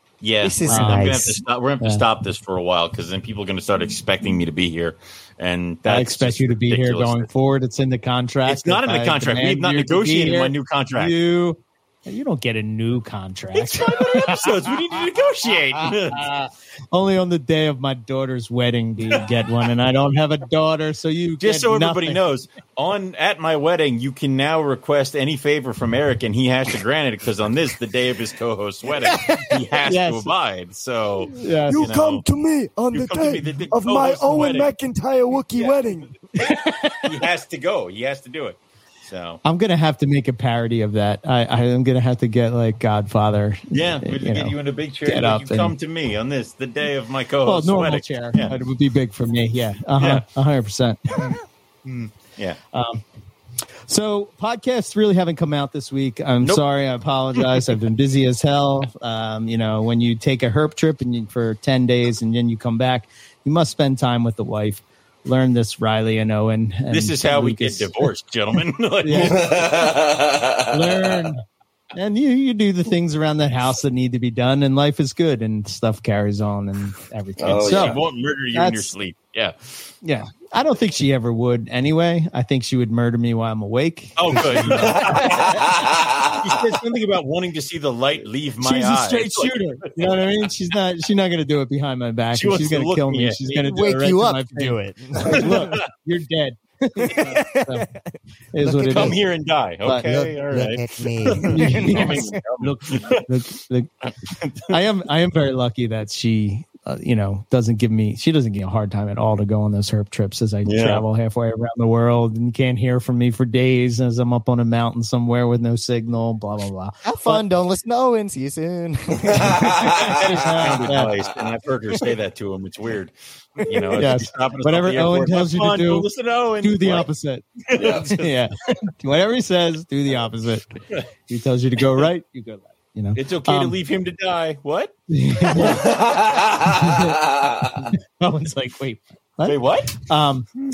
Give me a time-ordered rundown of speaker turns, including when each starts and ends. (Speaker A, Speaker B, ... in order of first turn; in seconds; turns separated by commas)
Speaker A: 0.2-7.3, Speaker B: 0.4-1.4, Speaker C: 0.7-1.1, Speaker C: 5.8-15.0, Speaker A: 8.4-11.1, Speaker A: 13.5-16.3, Speaker C: 15.7-22.2, Speaker A: 21.4-32.2, Speaker B: 29.0-29.5, Speaker C: 29.9-30.3, Speaker C: 31.3-31.9, Speaker B: 31.7-36.2, Speaker A: 32.9-34.7, Speaker A: 35.5-39.4, Speaker C: 36.4-37.1, Speaker C: 39.4-45.7, Speaker A: 43.7-48.6, Speaker C: 47.4-51.4, Speaker A: 50.0-50.2, Speaker A: 51.2-52.6, Speaker C: 52.7-53.0, Speaker C: 53.9-68.1, Speaker A: 57.4-57.7, Speaker A: 66.9-69.9, Speaker C: 69.0-69.5, Speaker D: 69.2-71.2, Speaker C: 70.7-78.0, Speaker D: 77.4-78.0, Speaker A: 77.5-79.9, Speaker C: 78.5-78.9, Speaker C: 80.0-85.3, Speaker A: 84.2-90.5, Speaker D: 84.8-86.6, Speaker C: 88.6-97.9, Speaker A: 92.3-93.5, Speaker B: 93.5-95.7, Speaker A: 95.4-95.8, Speaker B: 97.0-99.2, Speaker C: 98.5-99.2, Speaker A: 98.8-103.2, Speaker B: 99.8-102.4, Speaker C: 101.4-103.9, Speaker A: 104.3-104.8, Speaker C: 104.7-117.4, Speaker A: 110.6-111.0, Speaker B: 117.0-120.0, Speaker D: 119.4-120.2, Speaker A: 119.6-127.1, Speaker C: 119.9-121.1, Speaker B: 123.7-124.0, Speaker C: 123.9-126.1, Speaker C: 126.6-127.5, Speaker A: 127.7-128.3, Speaker D: 127.7-128.1, Speaker C: 128.1-133.8, Speaker A: 133.1-134.9, Speaker C: 135.1-135.9, Speaker A: 135.5-136.1, Speaker D: 135.6-137.8, Speaker C: 136.6-140.5, Speaker A: 139.4-139.9